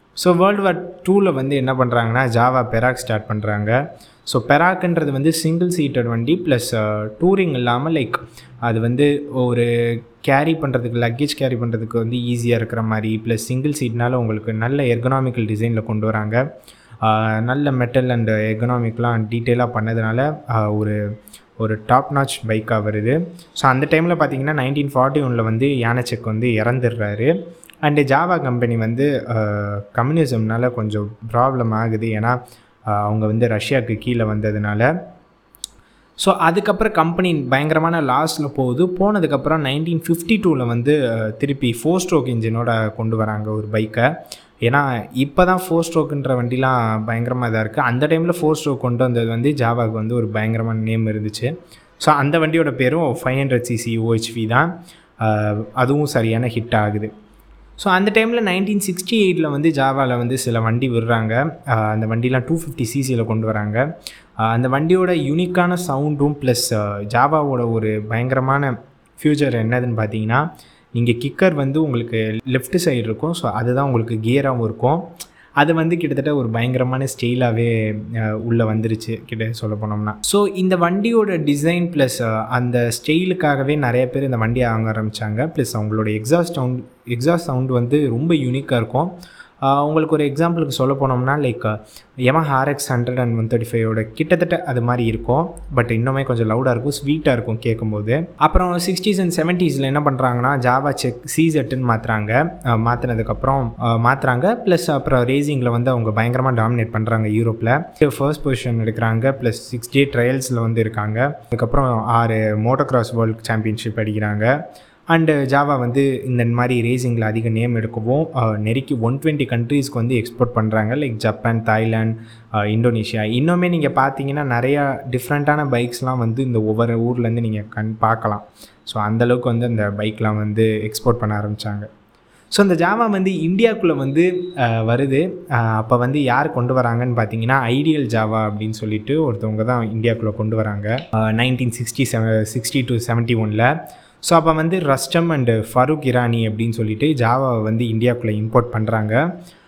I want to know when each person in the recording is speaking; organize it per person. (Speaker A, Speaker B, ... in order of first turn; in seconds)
Speaker A: 0.2-16.4, 17.0-21.0, 21.6-27.3, 27.8-32.4, 32.9-34.9, 36.2-44.1, 44.7-57.1, 57.8-63.9, 64.4-75.1, 75.6-89.1, 89.7-114.5, 115.1-131.9, 132.5-143.7, 144.2-149.2